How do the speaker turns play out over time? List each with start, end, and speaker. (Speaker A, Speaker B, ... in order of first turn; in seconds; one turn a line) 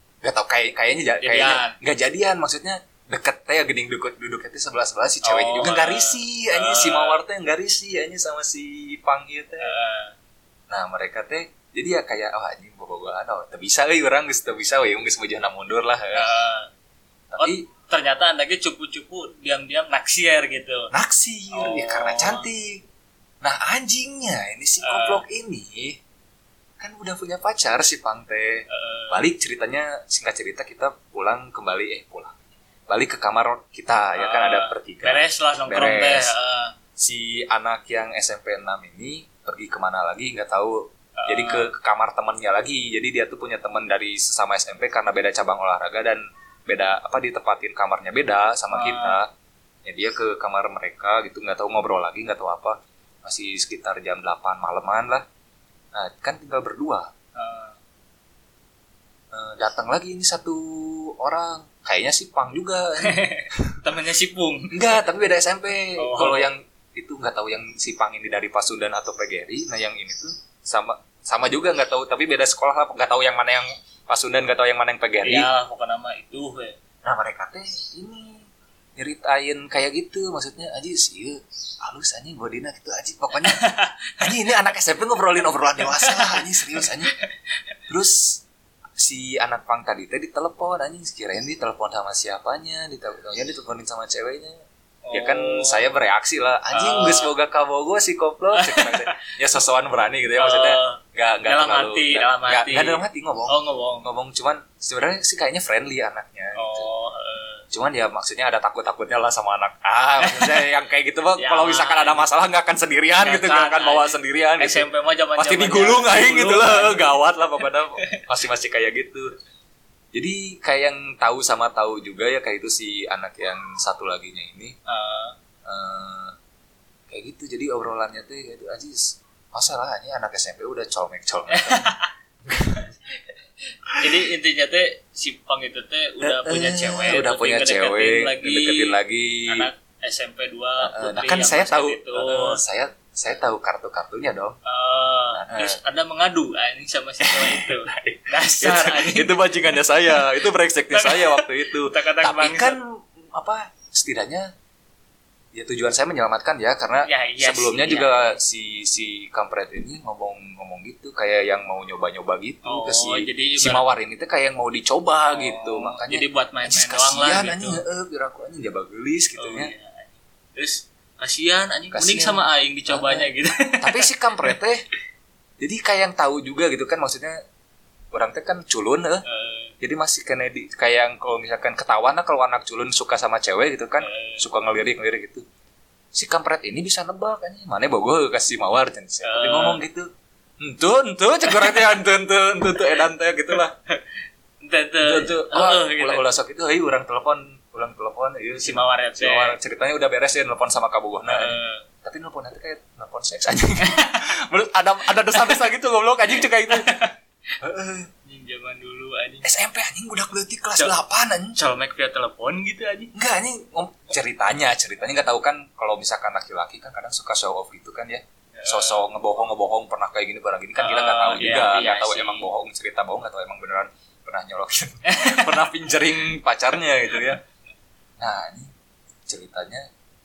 Speaker A: 0.2-9.7
Speaker B: 1.2-1.8
Speaker B: 5.2-7.2
Speaker B: 9.6-10.1
Speaker A: 10.7-16.3
Speaker B: 16.1-16.7
Speaker A: 17.3-17.6
Speaker B: 17.4-20.9
Speaker A: 20.9-22.8
Speaker B: 21.5-22.4
Speaker A: 23.4-26.0
Speaker B: 24.8-25.2
Speaker A: 26.8-32.4
Speaker B: 28.7-29.2
Speaker A: 32.9-36.3
Speaker B: 34.1-36.7
Speaker A: 37.0-49.3
Speaker B: 41.2-41.7
Speaker B: 48.7-49.2
Speaker A: 49.8-55.2
Speaker A: 55.9-57.1
Speaker B: 57.3-57.8
Speaker A: 59.3-63.8
Speaker B: 63.0-65.0
Speaker A: 64.7-75.5
Speaker B: 66.0-66.5
Speaker B: 75.2-76.8
Speaker A: 77.0-83.6
Speaker B: 83.4-84.3
Speaker A: 84.2-87.1
Speaker B: 85.8-86.9
Speaker A: 87.9-88.4
Speaker A: 89.0-94.6
Speaker B: 95.0-95.9
Speaker A: 95.1-106.9
Speaker B: 96.7-97.3
Speaker B: 98.5-99.3
Speaker B: 100.4-104.1
Speaker B: 106.5-107.6
Speaker A: 107.7-119.3
Speaker B: 110.2-110.7
Speaker B: 111.4-112.2
Speaker B: 113.2-117.2
Speaker A: 120.1-124.7
Speaker B: 124.9-125.3
Speaker A: 125.6-126.3
Speaker A: 127.1-131.9
Speaker B: 131.5-132.1
Speaker A: 132.4-132.9
Speaker B: 132.8-133.2
Speaker B: 133.9-138.9
Speaker A: 136.2-139.7
Speaker B: 139.5-142.6
Speaker A: 140.8-144.6
Speaker B: 144.6-149.4
Speaker A: 145.3-145.8
Speaker A: 147.2-154.5
Speaker B: 150.9-152.8
Speaker A: 155.5-169.7
Speaker B: 157.0-158.4
Speaker B: 162.6-163.8
Speaker B: 165.3-167.8
Speaker B: 169.4-174.6
Speaker A: 171.9-173.3
Speaker A: 173.8-174.8
Speaker A: 175.6-177.4
Speaker A: 178.1-179.2
Speaker B: 179.2-179.7
Speaker A: 179.8-185.4
Speaker B: 184.0-184.4
Speaker A: 186.1-190.1
Speaker B: 189.2-189.8
Speaker A: 190.6-193.7
Speaker B: 191.4-191.9
Speaker B: 192.8-196.2
Speaker A: 195.0-206.9
Speaker B: 198.6-199.6
Speaker B: 201.3-201.8
Speaker B: 203.8-204.2
Speaker B: 205.3-205.6
Speaker B: 206.7-207.1
Speaker A: 207.6-208.1
Speaker B: 208.2-209.5
Speaker A: 209.4-211.6
Speaker B: 211.5-213.1
Speaker A: 213.1-227.4
Speaker B: 218.5-219.1
Speaker B: 220.8-222.5
Speaker B: 225.0-225.6
Speaker A: 228.2-228.7
Speaker A: 229.3-229.8